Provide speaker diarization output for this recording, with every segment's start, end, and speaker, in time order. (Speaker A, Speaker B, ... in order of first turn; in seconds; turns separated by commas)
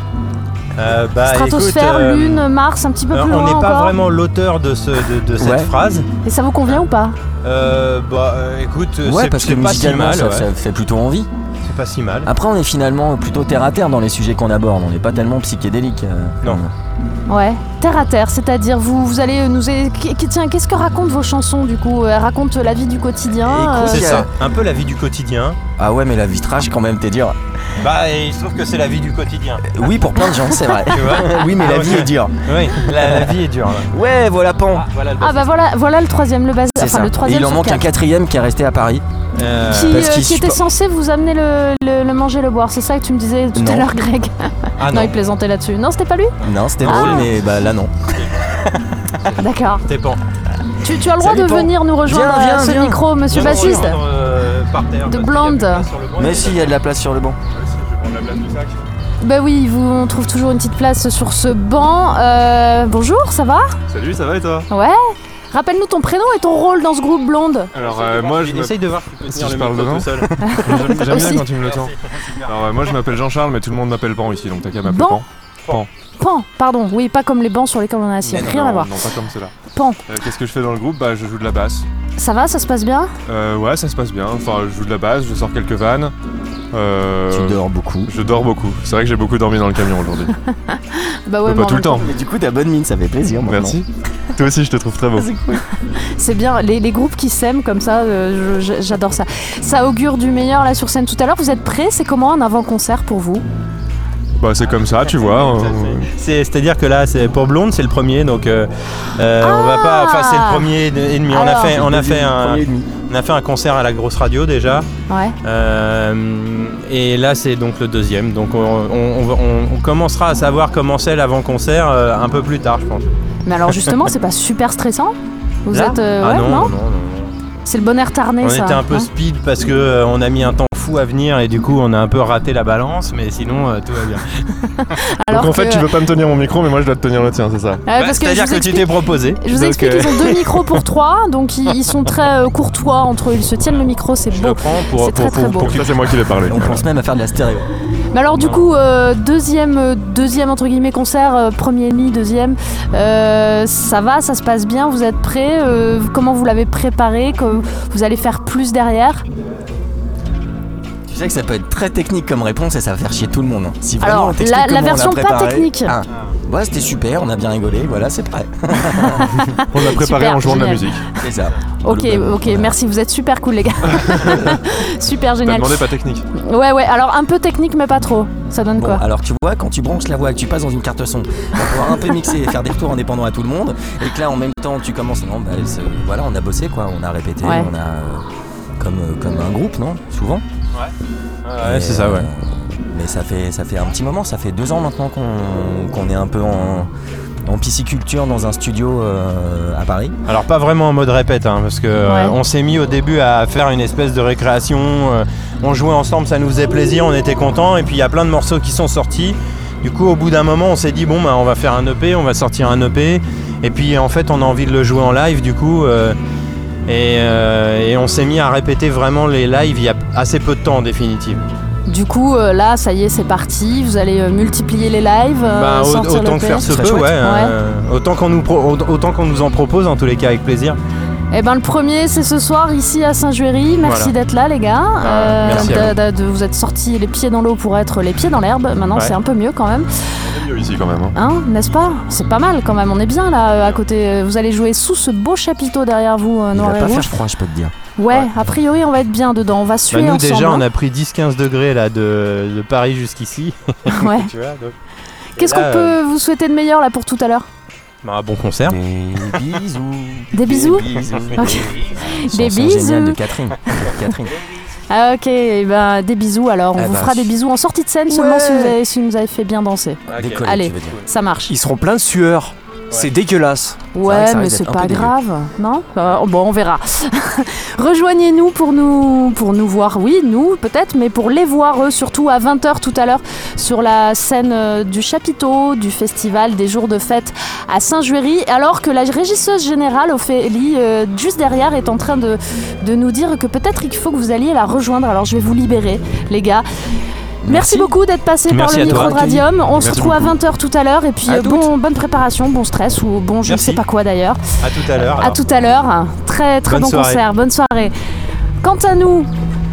Speaker A: 0.8-2.5, Speaker B: 1.2-4.0, Speaker A: 3.1-6.1, Speaker C: 5.4-5.7, Speaker B: 6.2-7.2, Speaker A: 7.4-10.5, Speaker C: 9.1-11.3, Speaker A: 11.6-12.3, Speaker C: 12.2-16.7, Speaker B: 17.3-24.2, Speaker C: 23.4-24.3, Speaker A: 23.8-25.6, Speaker C: 25.8-27.4, Speaker A: 27.8-29.7, Speaker C: 29.7-33.4, Speaker A: 30.8-33.9, Speaker C: 33.9-34.9, Speaker A: 34.7-35.5, Speaker B: 35.2-37.9, Speaker C: 36.8-39.0, Speaker A: 39.4-40.1, Speaker B: 39.7-47.3, Speaker C: 39.9-40.6, Speaker C: 43.5-43.9, Speaker A: 44.8-45.1, Speaker C: 46.4-48.6, Speaker A: 46.8-47.3, Speaker A: 48.2-48.5, Speaker A: 49.1-50.2, Speaker B: 49.4-49.9, Speaker B: 50.8-54.0, Speaker C: 51.2-53.8, Speaker A: 53.3-56.8, Speaker B: 55.1-55.9, Speaker C: 56.2-57.4, Speaker D: 57.6-58.8, Speaker B: 59.2-63.8, Speaker D: 63.9-64.7, Speaker B: 64.7-67.7, Speaker A: 67.8-71.2, Speaker D: 67.8-75.9, Speaker B: 70.5-71.5, Speaker A: 71.7-72.5, Speaker B: 74.9-75.2, Speaker B: 76.2-78.9, Speaker D: 78.3-79.5, Speaker B: 79.7-80.0, Speaker D: 80.1-81.9, Speaker B: 82.2-83.1, Speaker D: 83.3-86.1, Speaker D: 86.7-90.4, Speaker C: 87.3-88.1, Speaker B: 90.5-92.1, Speaker D: 91.5-92.1, Speaker C: 92.0-93.8, Speaker D: 93.4-95.3, Speaker C: 95.2-95.6, Speaker B: 95.9-103.5, Speaker D: 104.4-106.1, Speaker A: 104.6-114.9, Speaker B: 109.4-110.7, Speaker B: 111.3-111.8, Speaker C: 111.7-113.0, Speaker B: 115.1-115.4, Speaker A: 115.4-123.1, Speaker B: 123.5-126.7, Speaker A: 125.7-127.3, Speaker B: 127.7-129.1, Speaker A: 128.4-134.4, Speaker B: 134.6-136.0, Speaker D: 135.3-137.8, Speaker B: 137.9-145.8, Speaker A: 137.9-139.5, Speaker D: 139.7-140.1, Speaker A: 144.3-145.9, Speaker D: 145.7-146.9, Speaker C: 146.4-147.7, Speaker B: 148.1-159.2, Speaker A: 148.3-148.6, Speaker C: 161.1-169.4, Speaker B: 164.0-166.0, Speaker B: 169.0-171.0, Speaker D: 169.4-171.1, Speaker C: 171.2-172.7, Speaker B: 171.8-179.0, Speaker D: 174.0-174.5, Speaker D: 175.4-176.3, Speaker C: 178.8-188.2, Speaker B: 187.4-187.7, Speaker C: 188.8-190.4, Speaker A: 191.4-192.3, Speaker C: 191.6-196.9, Speaker C: 197.5-200.2, Speaker A: 200.2-216.2, Speaker B: 202.1-202.4, Speaker A: 216.9-221.4, Speaker B: 221.9-226.7, Speaker A: 225.5-230.8, Speaker C: 226.6-227.2, Speaker B: 227.2-227.6, Speaker B: 231.3-239.9, Speaker A: 233.8-234.1, Speaker A: 235.0-235.9, Speaker D: 240.3-241.2, Speaker B: 241.1-247.2, Speaker C: 246.5-247.7, Speaker B: 248.0-250.6, Speaker A: 249.9-254.8, Speaker B: 253.9-254.3, Speaker B: 255.3-257.5, Speaker A: 255.4-256.0, Speaker A: 258.0-258.8, Speaker C: 258.7-264.3, Speaker B: 260.3-264.0, Speaker A: 261.3-261.7, Speaker B: 264.9-271.5, Speaker C: 266.8-267.3, Speaker E: 268.1-268.7, Speaker C: 268.2-268.6, Speaker C: 270.1-271.0, Speaker A: 270.1-270.4, Speaker E: 271.5-273.8, Speaker B: 273.9-296.6, Speaker C: 274.0-275.1, Speaker C: 297.4-297.9, Speaker B: 297.4-304.4, Speaker A: 298.5-300.3, Speaker C: 298.9-299.4, Speaker C: 301.3-301.7, Speaker A: 303.4-303.8, Speaker A: 304.6-305.4, Speaker B: 305.0-307.9, Speaker A: 306.7-307.2, Speaker B: 308.6-309.3